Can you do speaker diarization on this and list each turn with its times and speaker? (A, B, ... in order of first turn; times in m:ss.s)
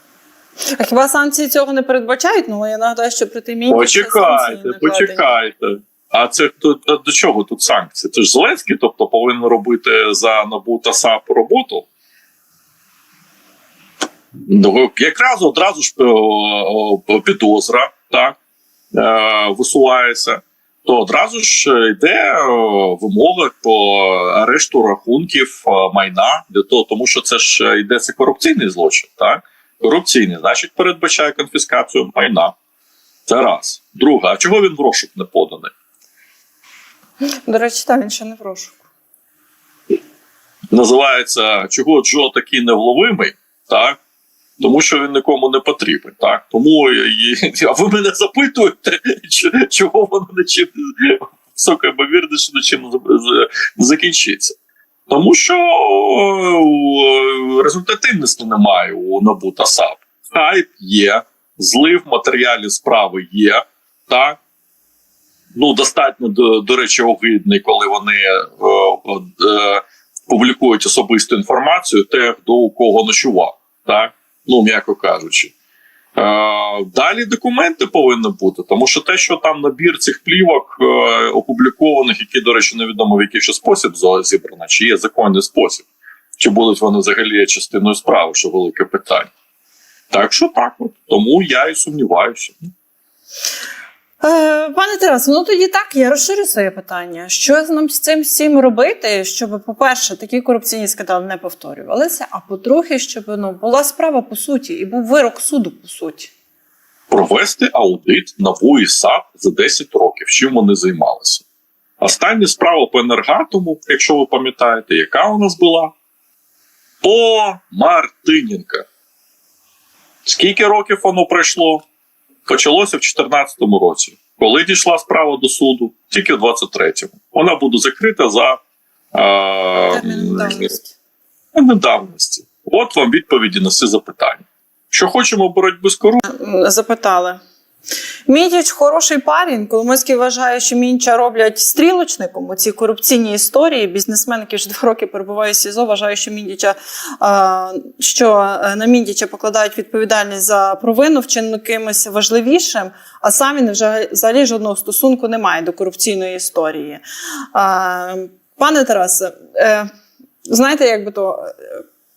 0:00.7-0:05.4 A
0:03.7-0:11.9 B
0:14.5-0:18.4 B
0:18.9-0:32.5 B
0:33.3-0:35.7 B
0:37.5-0:38.8 A
0:40.7-0:44.0 B
0:44.6-0:54.6 B
0:55.1-1:04.4 B
1:05.5-1:15.5 B
1:16.2-1:25.8 B
1:26.4-1:29.3 B
1:30.1-1:32.7 B
1:34.2-1:46.3 A
1:47.1-1:51.4 B
1:52.0-1:55.9 B
1:57.0-1:58.9 B
2:00.2-2:01.8 B
2:02.5-2:08.6 B
2:09.1-2:10.6 B
2:09.9-2:11.0 A
2:11.5-2:16.2 B
2:16.2-2:17.4 A
2:18.3-2:37.0 A
2:37.5-2:39.9 A
2:40.5-2:41.8 A